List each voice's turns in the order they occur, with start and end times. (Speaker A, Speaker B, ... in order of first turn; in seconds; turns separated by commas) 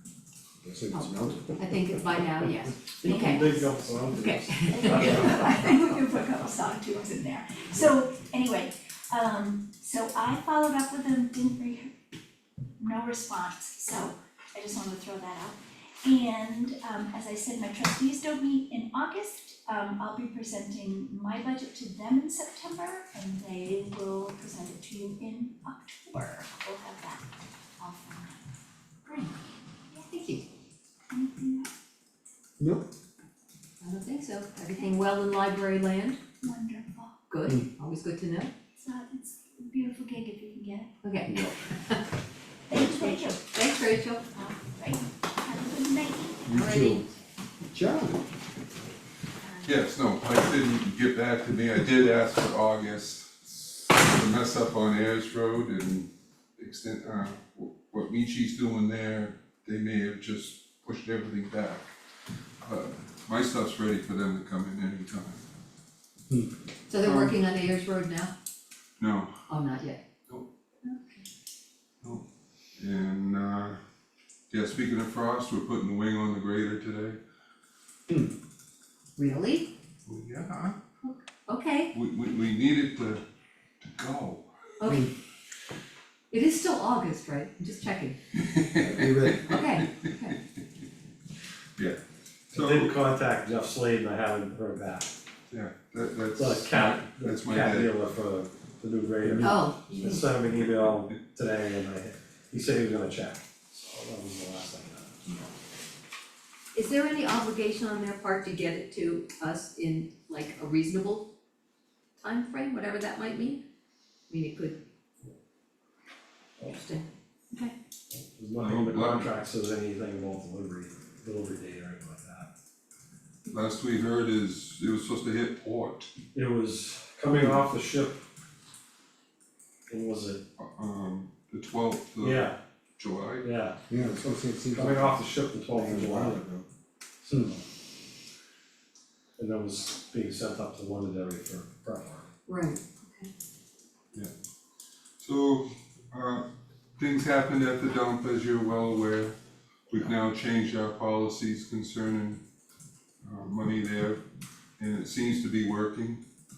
Speaker A: 0.6-1.6, Speaker B: 0.9-5.6, Speaker C: 3.0-3.7, Speaker D: 3.0-5.5, Speaker C: 4.7-11.9, Speaker C: 12.8-27.2, Speaker C: 27.8-28.5, Speaker B: 29.1-29.3, Speaker C: 29.9-30.2, Speaker B: 30.1-30.4, Speaker C: 31.1-31.7, Speaker A: 32.6-32.9, Speaker B: 33.8-36.2, Speaker C: 36.4-37.2, Speaker B: 37.3-38.5, Speaker C: 38.8-40.9, Speaker B: 41.0-42.0, Speaker A: 41.3-41.6, Speaker C: 42.7-43.4, Speaker A: 42.8-43.1, Speaker B: 43.4-44.2, Speaker C: 44.3-46.8, Speaker A: 46.5-47.0, Speaker B: 46.5-47.1, Speaker A: 47.7-48.2, Speaker C: 49.4-49.9, Speaker E: 49.6-61.9, Speaker E: 62.6-65.4, Speaker B: 66.9-68.3, Speaker E: 67.0-67.3, Speaker E: 69.0-69.3, Speaker B: 69.5-70.0, Speaker B: 70.8-71.2, Speaker E: 72.8-73.8, Speaker E: 74.5-77.2, Speaker B: 79.2-79.7, Speaker E: 80.0-80.8, Speaker B: 81.0-81.9, Speaker E: 81.9-83.2, Speaker E: 83.8-84.5, Speaker B: 84.8-85.1, Speaker B: 86.3-88.2, Speaker E: 88.3-89.8, Speaker A: 88.8-89.4, Speaker B: 89.5-90.4, Speaker E: 92.5-92.9, Speaker D: 92.5-95.1, Speaker E: 95.5-97.9, Speaker D: 96.4-105.2, Speaker E: 99.2-99.5, Speaker B: 99.4-100.3, Speaker B: 106.7-111.3, Speaker B: 112.2-113.6, Speaker B: 114.3-114.8, Speaker B: 116.6-117.7, Speaker D: 118.3-122.5, Speaker E: 118.6-119.3, Speaker E: 123.5-126.1, Speaker D: 126.3-128.2, Speaker D: 129.9-130.4, Speaker E: 130.6-133.4, Speaker D: 132.2-132.5, Speaker D: 133.4-133.8, Speaker A: 133.9-136.6, Speaker D: 134.7-136.4, Speaker D: 137.2-137.6, Speaker D: 139.4-142.2, Speaker B: 142.5-143.3, Speaker E: 145.2-146.4, Speaker E: 147.0-149.3, Speaker E: 149.9-152.4, Speaker E: 153.2-154.2, Speaker E: 154.8-156.2